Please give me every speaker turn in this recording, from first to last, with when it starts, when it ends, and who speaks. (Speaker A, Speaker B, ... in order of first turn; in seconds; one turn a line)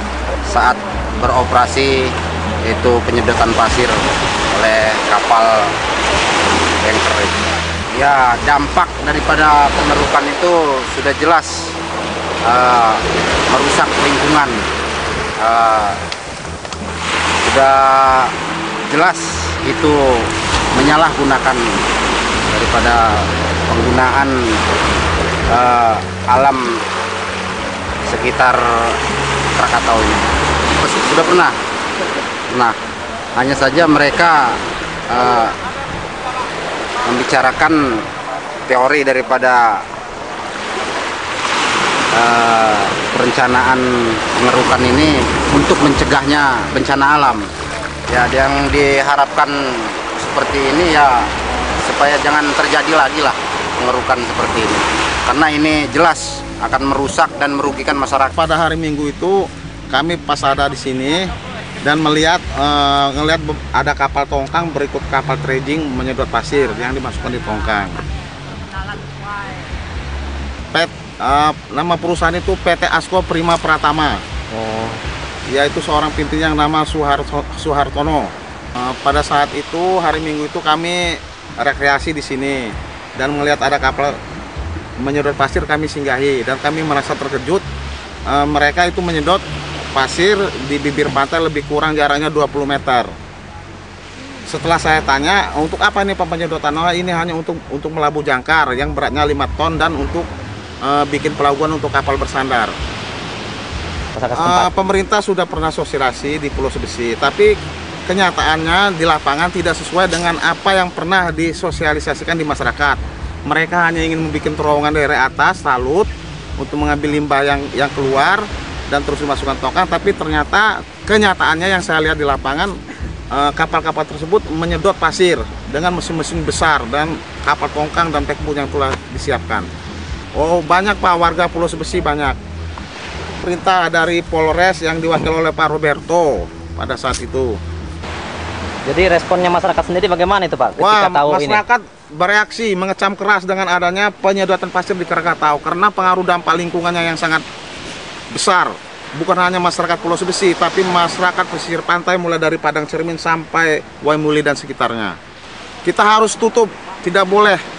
Speaker A: 0.4-2.1
Speaker A: 2.6-4.0
Speaker A: 4.5-5.7
Speaker A: 6.8-11.8
Speaker A: 12.4-14.7
Speaker A: 15.4-16.0
Speaker A: 17.4-18.3
Speaker A: 18.9-21.9
Speaker A: 22.5-24.6
Speaker A: 25.5-26.8
Speaker A: 28.1-29.0
Speaker A: 29.6-31.5
Speaker A: 33.4-35.5
Speaker A: 37.0-38.0
Speaker A: 38.7-39.8
Speaker A: 42.1-47.5
Speaker A: 48.1-51.3
Speaker A: 51.8-58.3
Speaker B: 58.3-68.0
Speaker B: 70.7-74.2
Speaker C: 74.5-75.0
Speaker B: 75.5-84.2
Speaker B: 85.0-87.6
Speaker B: 88.3-89.4
Speaker B: 89.9-93.1
Speaker B: 94.5-100.3
Speaker B: 100.8-102.7
Speaker C: 104.2-104.7
Speaker B: 104.3-107.5
Speaker B: 108.1-122.8
Speaker B: 123.3-129.7
Speaker B: 130.3-132.4
Speaker B: 133.4-137.6
Speaker C: 138.8-141.6
Speaker B: 140.8-147.4
Speaker B: 148.3-155.2
Speaker B: 155.8-157.6